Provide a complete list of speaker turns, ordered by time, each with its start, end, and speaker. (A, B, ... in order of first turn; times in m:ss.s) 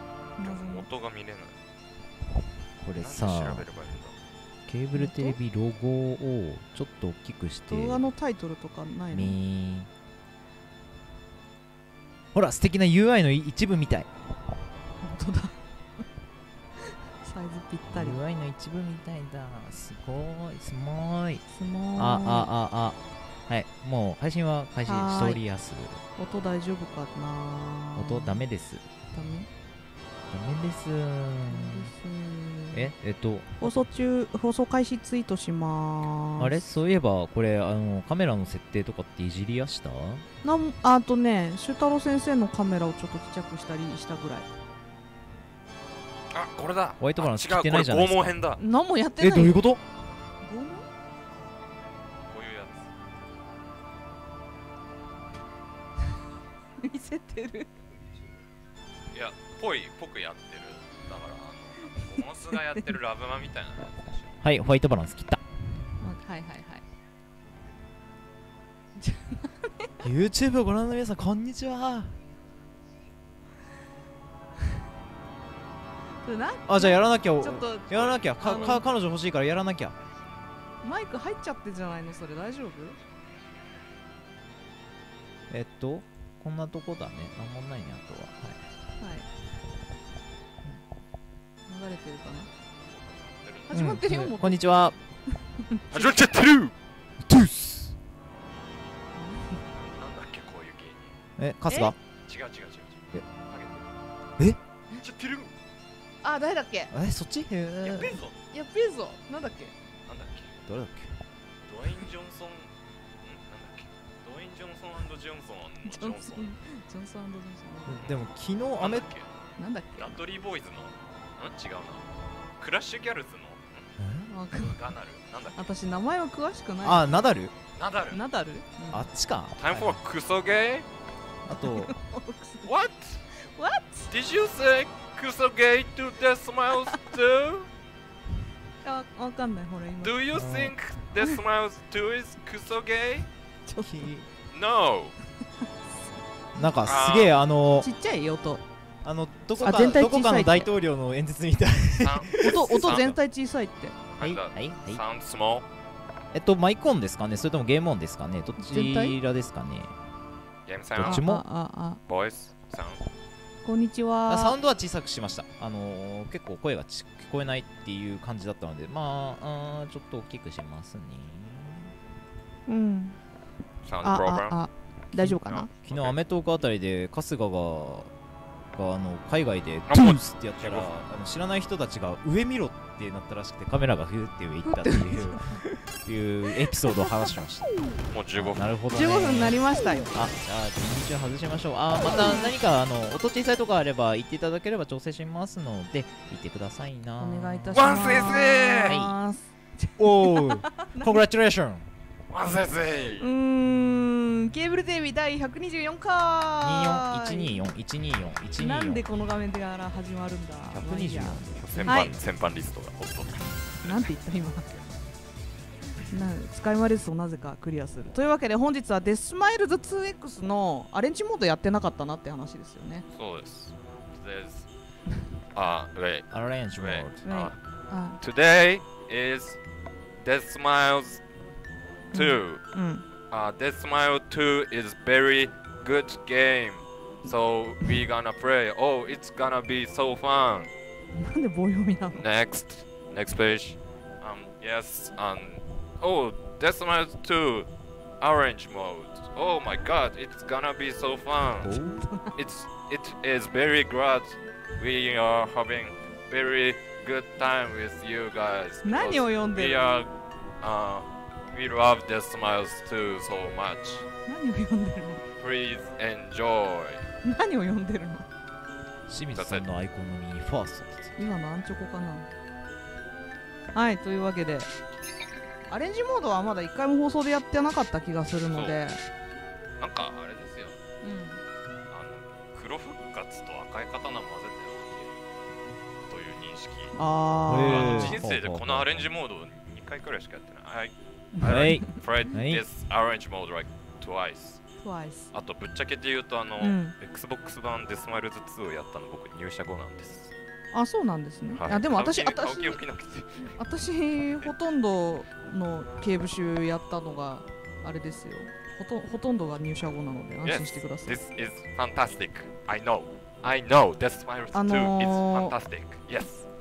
0:00.4-0:00.8 A
0:00.4-0:01.5 B
0:02.8-0:03.7 C
0:03.0-0:04.1 B
0:04.7-0:08.0 C
0:04.9-0:05.3 A
0:07.7-0:09.4 A
0:09.1-0:09.9 C
0:12.3-0:14.1 C
0:15.0-0:15.6 A
0:16.8-0:18.2 A
0:17.9-0:21.4 C
0:21.5-0:22.5 A
0:22.0-0:26.0 C
0:24.9-0:25.4 A
0:26.2-0:28.4 A
0:28.0-0:28.8 C
0:29.1-0:29.5 A
0:30.3-0:31.9 C
0:31.5-0:32.9 A
0:32.7-0:33.7 C
0:33.6-0:36.7 A
0:36.4-0:40.2 C
0:40.4-0:44.5 A
0:46.3-0:48.6 B
0:47.0-0:48.4 C
0:48.6-0:49.6 A
0:49.2-0:49.8 C
0:50.4-0:50.9 A
0:52.3-0:52.9 B
0:56.8-0:57.7 A
0:59.1-1:04.4 B
1:04.4-1:05.4 C
1:06.0-1:06.8 A
1:09.0-1:09.9 A
1:10.0-1:12.2 C
1:16.2-1:18.8 A
1:16.7-1:20.0 C
1:20.8-1:23.0 A
1:25.5-1:28.6 C
1:29.0-1:29.3 A
1:31.7-1:32.5 A
1:32.9-1:33.8 B
1:33.7-1:34.6 A
1:33.7-1:35.0 C
1:35.7-1:36.1 A
1:35.9-1:36.7 B
1:37.2-1:37.9 C
1:39.1-1:39.6 A
1:39.8-1:41.1 B
1:41.4-1:42.0 C
1:42.3-1:43.8 B
1:45.0-1:45.5 B
1:46.2-1:46.9 A
1:46.9-1:48.2 C
1:47.8-1:48.3 B
1:48.5-1:49.7 A
1:50.1-1:50.6 B
1:50.7-1:51.1 C
1:51.6-1:52.7 B
1:53.2-1:56.5 B
1:55.8-1:58.0 A
1:57.9-1:59.1 C
1:58.7-1:59.3 B
1:59.6-2:00.1 A
2:00.0-2:02.0 B
2:02.6-2:04.0 B
2:04.0-2:04.3 C
2:04.3-2:04.8 A
2:04.5-2:05.7 B
2:05.6-2:07.2 A
2:06.8-2:07.5 C
2:07.8-2:08.2 B
2:08.1-2:09.1 A
2:08.9-2:10.0 C
2:09.6-2:10.8 B
2:11.4-2:11.9 C
2:11.5-2:12.7 A
2:12.6-2:13.2 B
2:13.4-2:14.1 A
2:14.1-2:17.7 B
2:18.8-2:20.2 A
2:20.0-2:23.2 B
2:20.3-2:20.7 C
2:23.6-2:24.0 A
2:23.8-2:24.3 C
2:24.5-2:25.2 B
2:26.5-2:27.9 C
2:26.9-2:27.3 B
2:27.8-2:28.6 A
2:29.0-2:33.0 C
2:29.6-2:30.7 A
2:32.0-2:33.2 B
2:32.4-2:33.9 A
2:34.2-2:35.6 B
2:34.2-2:35.0 C
2:36.3-2:39.9 C
2:38.6-2:39.2 A
2:40.7-2:41.2 B
2:40.9-2:41.4 C
2:41.0-2:42.0 A
2:42.1-2:43.0 B
2:43.6-2:44.6 A
2:44.3-2:51.9 C
2:52.7-2:53.2 A
2:53.8-2:54.6 B
2:54.0-2:55.7 A
2:55.2-2:58.1 C
2:55.4-2:56.2 B
2:58.7-3:07.7 C
2:59.9-3:00.9 B
3:04.6-3:05.7 A
3:06.9-3:07.2 A
3:08.1-3:08.7 B
3:08.4-3:09.6 C
3:08.9-3:10.1 A
3:10.1-3:19.2 C
3:12.0-3:12.5 A
3:17.2-3:21.2 A
3:17.7-3:19.0 B
3:20.0-3:21.9 C
3:22.3-3:23.3 B
3:23.2-3:27.6 A
3:26.6-3:29.0 C
3:28.6-3:32.1 A
3:30.7-3:32.2 C
3:31.5-3:34.1 B
3:33.8-3:34.8 A
3:36.1-3:43.0 A
3:43.2-3:44.7 B
3:45.5-3:47.6 B
3:46.3-3:47.2 C
3:47.2-3:48.2 A
3:48.2-3:49.6 B
3:50.2-3:51.2 B
3:52.1-3:52.6 B
3:52.1-3:53.0 A
3:53.3-4:00.7 B
4:01.2-4:02.2 A
4:02.2-4:07.7 B
4:08.2-4:11.8 B
4:11.8-4:12.3 A
4:12.3-4:20.1 B
4:18.8-4:19.8 A
4:20.6-4:24.0 B
4:24.2-4:25.2 A
4:25.4-4:27.0 B
4:27.2-4:28.3 A
4:29.1-4:31.2 C
4:29.4-4:29.6 B
4:31.2-4:32.3 A
4:33.7-4:34.7 A
4:35.7-4:39.0 A
4:38.5-4:38.8 B
4:39.8-4:40.8 B
4:41.0-4:41.4 A
4:41.9-4:45.1 B
4:46.1-4:46.9 B
4:47.0-4:48.2 A
4:47.5-4:49.0 C
4:47.5-4:54.6 B
4:51.4-4:52.6 C
4:54.8-4:55.3 A
4:55.3-5:00.3 B
4:56.6-4:56.9 A
5:00.7-5:02.8 A
5:01.5-5:03.5 B
5:03.6-5:11.2 A
5:10.4-5:16.5 B
5:14.5-5:15.5 A